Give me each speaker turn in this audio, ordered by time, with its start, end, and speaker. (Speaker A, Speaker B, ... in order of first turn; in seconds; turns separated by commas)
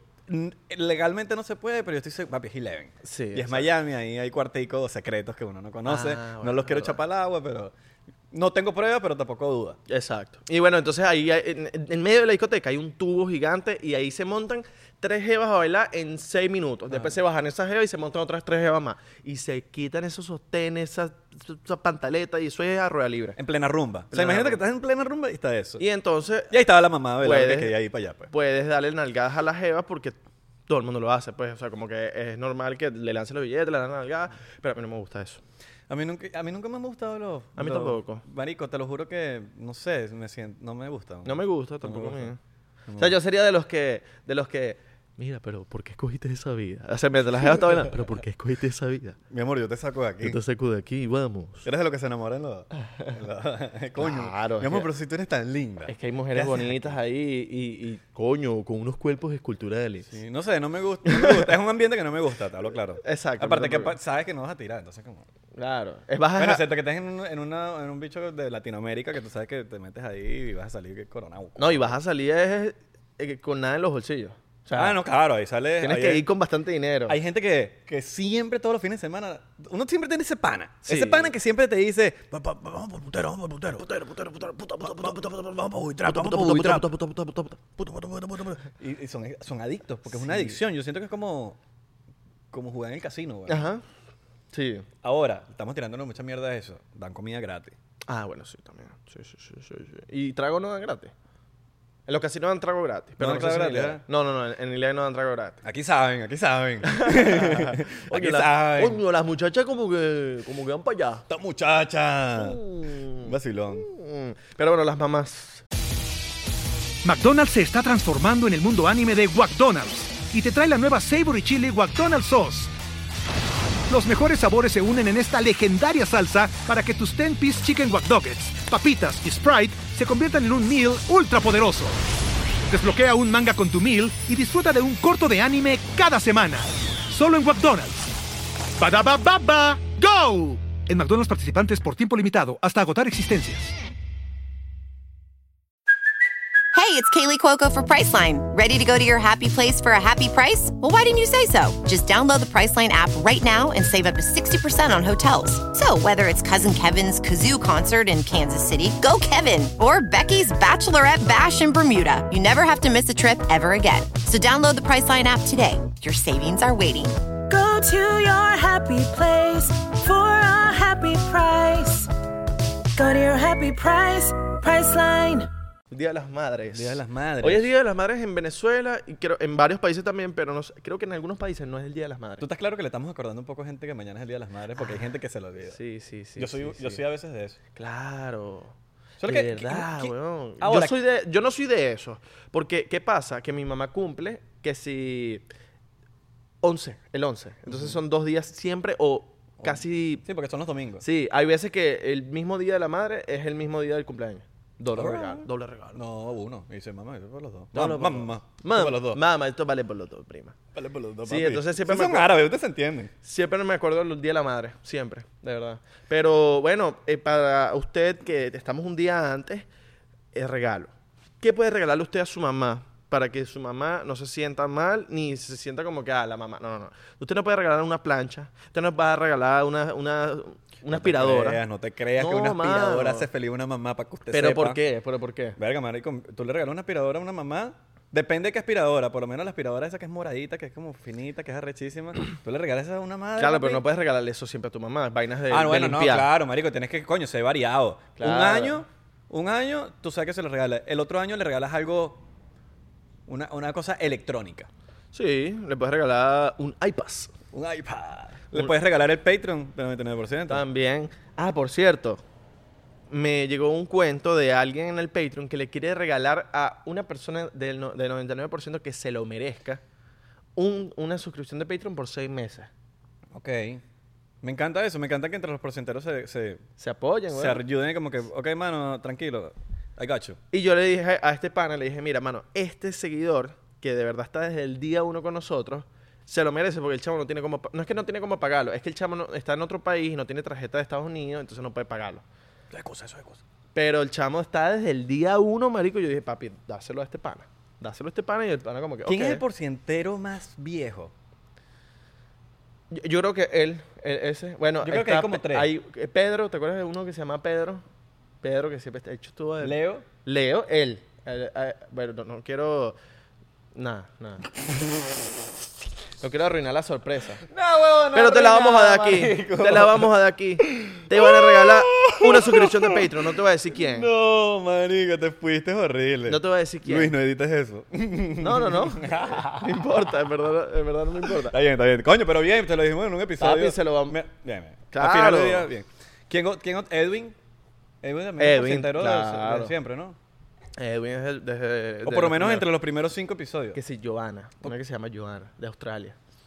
Speaker A: 0.3-7.7, Speaker B: 3.0-3.7, Speaker B: 5.8-7.0, Speaker A: 8.3-9.8, Speaker B: 9.9-23.4, Speaker A: 16.9-17.1, Speaker A: 23.4-25.8, Speaker B: 24.1-24.6, Speaker B: 25.8-26.6, Speaker A: 26.5-28.3, Speaker B: 27.2-27.8, Speaker B: 28.3-35.4, Speaker A: 35.9-42.3, Speaker B: 37.6-38.2, Speaker B: 41.2-42.4, Speaker A: 42.9-43.1, Speaker B: 43.0-49.2, Speaker A: 49.3-50.4, Speaker B: 50.2-51.7, Speaker A: 51.6-57.0, Speaker B: 54.0-54.9, Speaker B: 55.9-60.1, Speaker A: 60.1-65.2, Speaker B: 61.0-61.5, Speaker B: 63.0-63.9, Speaker B: 65.5-66.6, Speaker A: 66.3-71.9, Speaker B: 71.6-75.0, Speaker A: 74.7-76.2, Speaker B: 75.8-77.2, Speaker A: 77.1-86.9, Speaker B: 80.8-81.3, Speaker B: 84.3-85.4, Speaker B: 86.0-87.6, Speaker A: 87.8-91.6, Speaker B: 90.1-90.6, Speaker A: 92.5-93.6, Speaker B: 93.5-93.8, Speaker B: 94.5-94.9, Speaker A: 95.0-97.8, Speaker B: 98.1-101.1, Speaker B: 102.1-105.6, Speaker A: 103.2-104.0, Speaker A: 105.6-109.0, Speaker B: 106.8-111.2, Speaker A: 111.3-112.6, Speaker B: 112.4-115.6, Speaker A: 113.2-113.9, Speaker C: 117.0-122.7, Speaker C: 123.9-132.0, Speaker C: 132.7-138.1, Speaker C: 138.8-143.7, Speaker D: 146.7-167.2, Speaker E: 167.5-172.1, Speaker E: 172.9-175.5, Speaker B: 175.9-182.4, Speaker A: 176.7-177.7, Speaker A: 182.4-185.8, Speaker B: 184.8-185.1, Speaker B: 185.7-187.0, Speaker A: 186.4-187.6, Speaker B: 187.7-195.4, Speaker A: 189.2-191.0, Speaker B: 196.6-200.2, Speaker A: 197.7-197.9, Speaker A: 199.6-201.0, Speaker B: 201.0-206.0, Speaker A: 204.9-209.2, Speaker B: 207.7-210.6, Speaker A: 210.7-213.1, Speaker B: 211.2-212.3, Speaker B: 213.2-219.7, Speaker B: 220.3-231.6, Speaker A: 230.9-234.8, Speaker B: 232.2-233.3, Speaker B: 234.3-235.6, Speaker A: 235.6-243.8, Speaker B: 243.4-246.3, Speaker A: 245.5-252.2, Speaker B: 248.2-248.8, Speaker A: 253.3-254.7, Speaker B: 255.1-257.3, Speaker A: 257.5-260.6, Speaker B: 260.5-262.2, Speaker B: 263.1-269.8, Speaker B: 270.6-272.7, Speaker A: 273.3-273.8, Speaker A: 274.4-276.6, Speaker B: 276.8-277.6, Speaker A: 277.3-280.4, Speaker B: 280.5-292.2, Speaker A: 292.7-293.4, Speaker B: 293.7-299.4, Speaker A: 299.1-301.1, Speaker B: 302.9-307.8, Speaker A: 304.8-305.7, Speaker B: 308.4-313.0, Speaker A: 309.6-310.1, Speaker B: 313.7-314.5, Speaker B: 316.2-317.4, Speaker A: 317.5-323.1, Speaker B: 318.1-324.1, Speaker A: 323.7-329.8, Speaker B: 326.3-327.1, Speaker B: 328.4-331.6, Speaker A: 331.2-337.4, Speaker B: 333.4-334.2, Speaker B: 334.9-335.7, Speaker A: 338.0-340.2, Speaker B: 338.4-339.7, Speaker B: 340.8-342.7, Speaker A: 342.0-343.8, Speaker B: 343.7-346.1